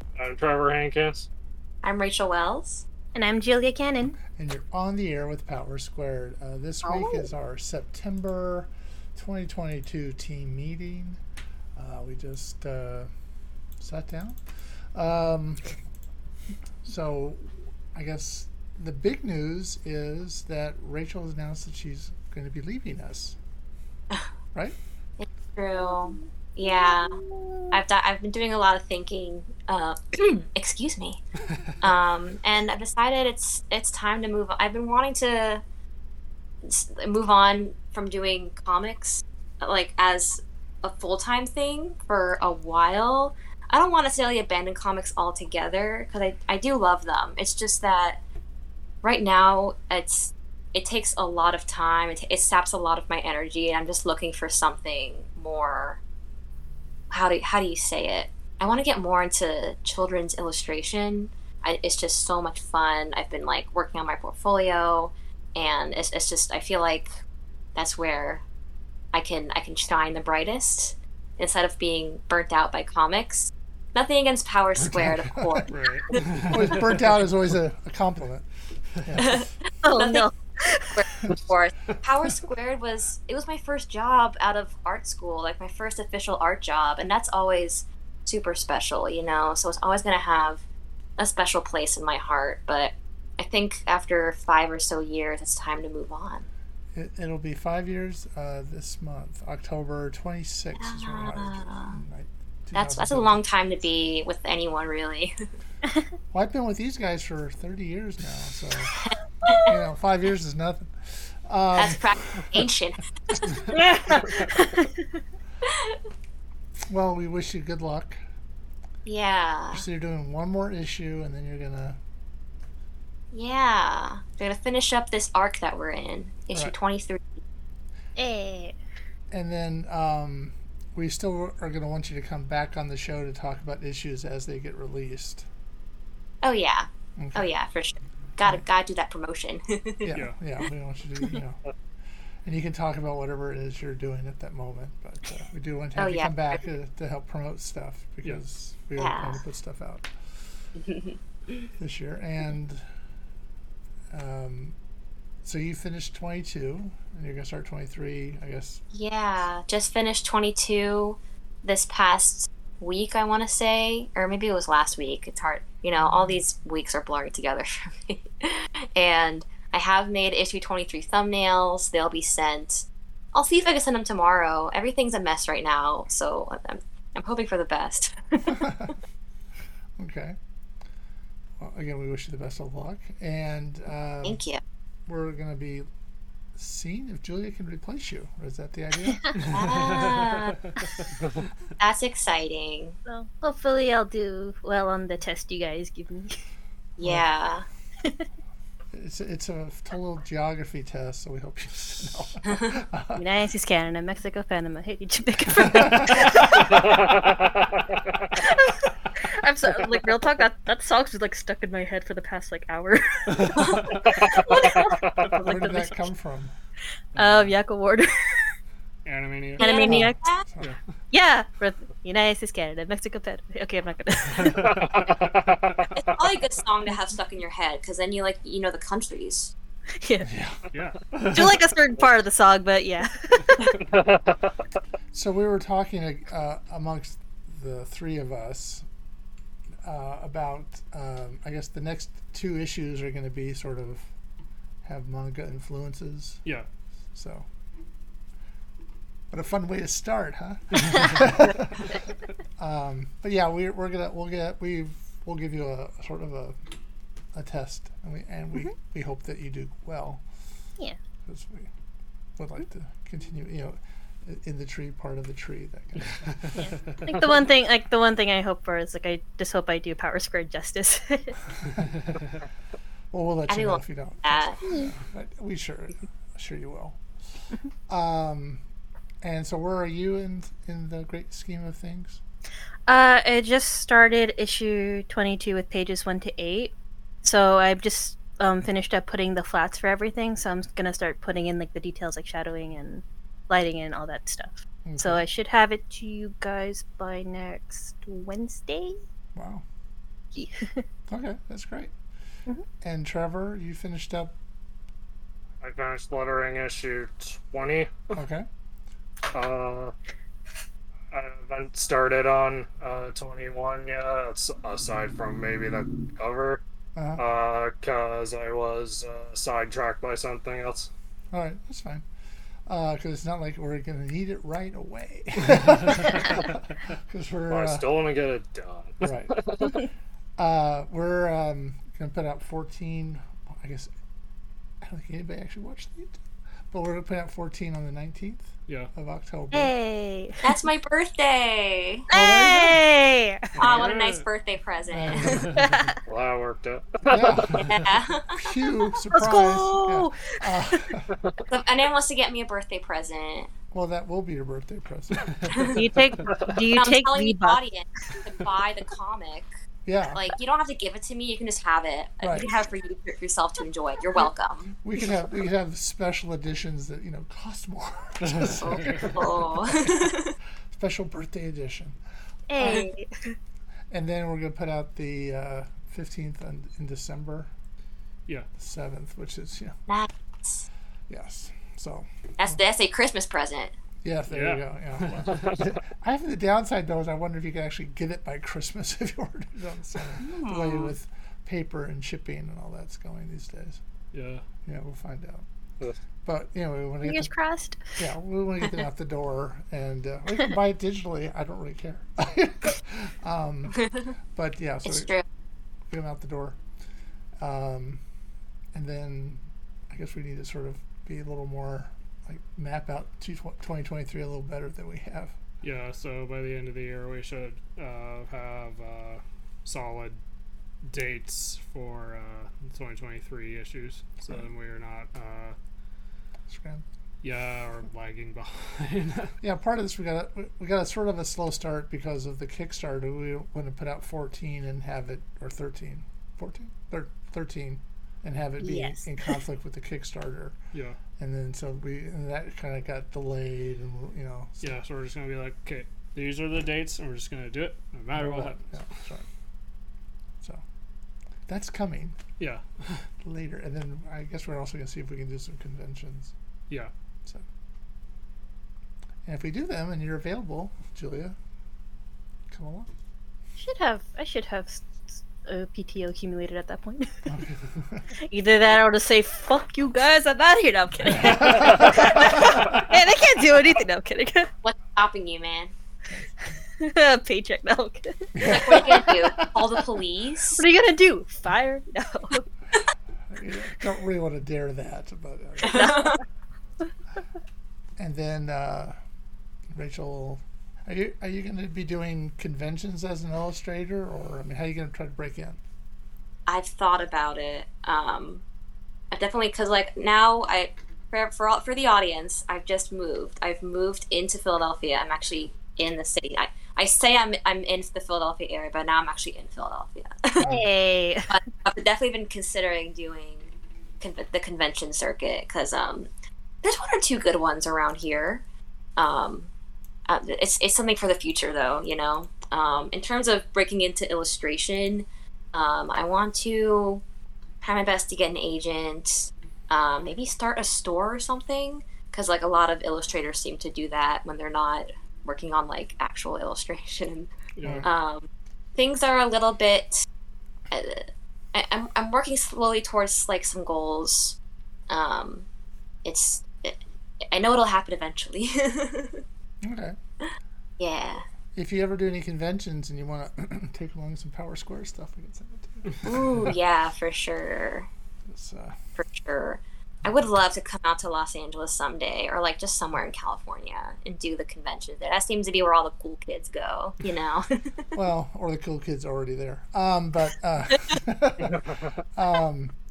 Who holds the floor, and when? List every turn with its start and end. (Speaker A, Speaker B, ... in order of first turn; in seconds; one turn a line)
Speaker A: 0.2-1.3
Speaker B: 1.8-2.8
Speaker C: 3.1-4.2
Speaker D: 4.2-11.2
Speaker C: 6.8-7.2
Speaker D: 11.8-13.1
Speaker D: 13.8-14.4
Speaker D: 14.9-15.6
Speaker D: 16.8-23.4
Speaker B: 25.2-31.2
Speaker C: 26.6-27.8
Speaker B: 31.8-35.6
Speaker B: 36.6-48.2
Speaker B: 49.0-56.0
Speaker B: 57.1-67.1
Speaker B: 67.8-68.4
Speaker B: 69.1-76.8
Speaker D: 74.8-78.4
Speaker E: 76.0-76.8
Speaker D: 79.0-79.4
Speaker B: 79.2-80.3
Speaker C: 79.8-81.0
Speaker B: 80.9-90.6
Speaker B: 91.2-96.5
Speaker D: 96.9-103.4
Speaker B: 100.8-102.0
Speaker B: 102.8-105.3
Speaker D: 106.3-108.9
Speaker B: 109.0-109.8
Speaker D: 109.7-112.4
Speaker B: 111.8-113.7
Speaker C: 113.7-115.0
Speaker B: 115.6-116.0
Speaker D: 116.9-118.2
Speaker B: 119.0-119.8
Speaker D: 119.7-122.0
Speaker B: 123.3-127.4
Speaker C: 128.2-128.8
Speaker D: 129.3-135.5
Speaker B: 136.4-140.1
Speaker D: 137.2-137.5
Speaker D: 140.0-141.6
Speaker D: 142.4-150.1
Speaker B: 146.0-146.3
Speaker B: 149.0-149.4
Speaker B: 150.8-151.7
Speaker D: 151.8-152.8
Speaker D: 154.1-154.8
Speaker D: 155.4-158.8
Speaker B: 158.9-178.8
Speaker D: 178.5-178.9
Speaker D: 180.0-180.4
Speaker D: 181.6-184.4
Speaker B: 184.2-184.6
Speaker D: 185.1-185.9
Speaker D: 186.6-189.3
Speaker E: 189.4-190.5
Speaker B: 189.5-190.7
Speaker B: 191.8-193.0
Speaker C: 193.1-196.4
Speaker B: 197.0-197.7
Speaker D: 198.9-203.2
Speaker C: 203.2-206.9
Speaker A: 206.7-208.4
Speaker C: 208.3-216.1
Speaker A: 213.9-215.4
Speaker B: 214.5-214.9
Speaker D: 215.3-216.5
Speaker C: 217.2-218.5
Speaker E: 217.2-217.5
Speaker E: 219.1-219.7
Speaker C: 219.6-220.2
Speaker B: 219.6-220.4
Speaker D: 219.8-220.8
Speaker C: 221.1-224.8
Speaker A: 224.6-226.2
Speaker B: 226.0-229.5
Speaker C: 230.0-230.3
Speaker D: 230.2-230.6
Speaker E: 230.7-231.7
Speaker C: 231.3-233.8
Speaker A: 233.8-234.5
Speaker D: 235.1-238.8
Speaker D: 239.8-244.1
Speaker D: 244.8-246.4
Speaker D: 247.1-247.5
Speaker D: 249.3-251.9
Speaker D: 252.6-256.6
Speaker D: 257.3-260.2
Speaker D: 261.2-261.7
Speaker D: 262.4-266.6
Speaker C: 267.0-271.4
Speaker D: 273.1-277.0
Speaker B: 273.5-274.6
Speaker C: 274.6-274.9
Speaker D: 277.9-278.6
Speaker D: 279.2-282.2
Speaker C: 282.9-299.0
Speaker D: 294.8-295.2
Speaker D: 299.3-299.6
Speaker C: 300.3-300.8
Speaker D: 301.1-301.9
Speaker D: 302.8-304.3
Speaker A: 305.6-308.1
Speaker D: 308.1-308.4
Speaker A: 309.3-309.9
Speaker A: 311.1-316.6
Speaker D: 316.9-317.2
Speaker A: 317.2-320.9
Speaker D: 321.3-322.0
Speaker D: 322.7-327.9
Speaker A: 327.5-329.8
Speaker D: 329.0-329.3
Speaker D: 330.4-333.9
Speaker D: 334.8-336.2
Speaker D: 336.7-339.7
Speaker C: 339.5-340.5
Speaker B: 340.4-342.1
Speaker C: 342.1-343.6
Speaker D: 342.1-342.8
Speaker E: 343.6-344.2
Speaker B: 343.6-345.6
Speaker D: 344.9-345.5
Speaker C: 345.6-346.0
Speaker A: 346.1-347.6
Speaker D: 347.1-347.6
Speaker B: 347.6-348.6
Speaker D: 348.3-351.1
Speaker C: 349.1-350.4
Speaker A: 351.1-351.4
Speaker B: 351.5-353.5
Speaker D: 353.7-355.8
Speaker C: 355.7-357.6
Speaker A: 356.2-356.7
Speaker B: 356.7-359.5
Speaker D: 359.9-360.2
Speaker B: 360.1-364.7
Speaker D: 362.2-362.5
Speaker D: 364.8-369.3
Speaker E: 368.2-369.2
Speaker B: 368.4-370.3
Speaker D: 370.7-372.0
Speaker C: 372.5-373.3
Speaker B: 372.6-372.9
Speaker D: 373.9-377.5
Speaker D: 378.6-379.8
Speaker B: 379.9-380.6
Speaker D: 381.1-382.6
Speaker B: 382.4-383.7
Speaker D: 384.0-393.8
Speaker E: 384.3-385.6
Speaker C: 390.2-390.8
Speaker E: 394.1-394.4
Speaker D: 394.6-395.4
Speaker D: 396.2-397.3
Speaker C: 397.0-397.8
Speaker D: 398.0-405.1
Speaker B: 404.8-405.2
Speaker D: 405.9-406.6
Speaker D: 407.4-408.0
Speaker D: 408.7-415.4
Speaker E: 415.6-420.2
Speaker E: 420.8-425.6
Speaker D: 426.5-426.8
Speaker E: 427.2-429.3
Speaker D: 429.4-440.6
Speaker C: 438.6-439.4
Speaker E: 440.7-441.0
Speaker D: 441.2-444.7
Speaker E: 444.6-448.7
Speaker D: 448.1-449.2
Speaker D: 451.5-452.2
Speaker E: 452.4-453.0
Speaker D: 453.2-456.3
Speaker D: 459.2-461.4
Speaker D: 462.5-462.9
Speaker C: 463.6-467.1
Speaker C: 468.2-474.5
Speaker B: 474.6-475.7
Speaker C: 476.8-478.7
Speaker D: 478.3-479.8
Speaker B: 478.4-480.6
Speaker C: 480.6-482.4
Speaker D: 483.3-486.1
Speaker B: 485.6-486.2
Speaker C: 485.7-486.2
Speaker D: 488.0-488.9
Speaker D: 489.7-495.6
Speaker B: 496.5-498.4
Speaker B: 499.1-510.4
Speaker C: 510.4-511.4
Speaker B: 511.3-516.1
Speaker B: 516.6-518.4
Speaker B: 519.0-519.5
Speaker B: 520.1-527.0
Speaker B: 527.6-537.3
Speaker E: 537.6-537.9
Speaker B: 537.8-540.1
Speaker B: 540.7-544.4
Speaker B: 544.9-545.5
Speaker B: 546.0-546.8
Speaker B: 547.3-549.2
Speaker D: 549.6-550.0
Speaker B: 550.2-551.2
Speaker D: 551.5-556.0
Speaker B: 556.0-557.9
Speaker D: 558.3-558.8
Speaker B: 559.0-567.9
Speaker D: 568.0-572.8